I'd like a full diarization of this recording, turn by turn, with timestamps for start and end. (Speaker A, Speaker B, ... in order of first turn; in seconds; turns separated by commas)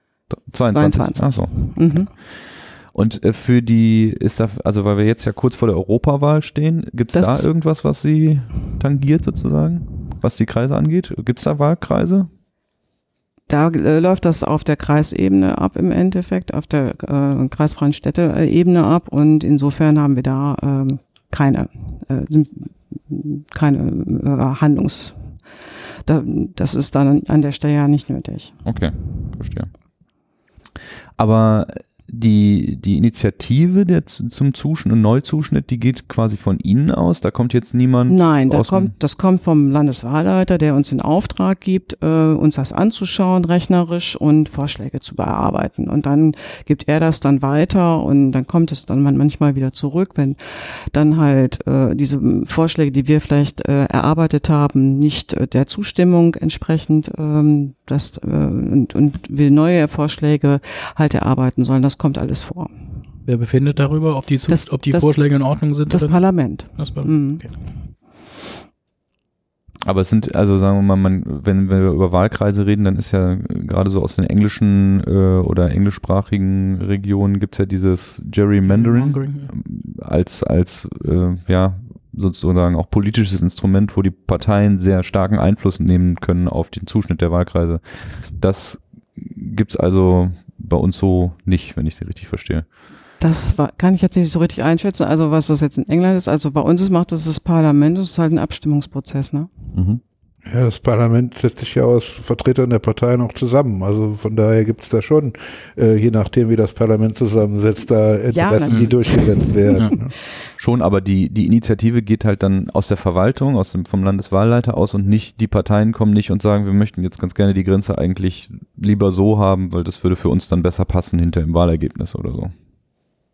Speaker A: 0.3-2.1, Speaker B: 0.7-2.1, Speaker A: 2.9-12.3, Speaker B: 7.1-7.5, Speaker B: 13.5-25.2, Speaker B: 26.1-28.6, Speaker A: 28.6-29.7, Speaker A: 31.2-38.9, Speaker B: 38.1-50.4, Speaker B: 50.9-62.7, Speaker C: 63.3-66.2, Speaker B: 64.5-65.1, Speaker B: 65.9-67.6, Speaker C: 66.8-67.5, Speaker A: 69.8-92.7, Speaker C: 78.7-79.5, Speaker B: 93.2-99.5, Speaker A: 99.7-100.0, Speaker D: 100.5-110.1, Speaker B: 108.3-110.1, Speaker A: 110.6-122.5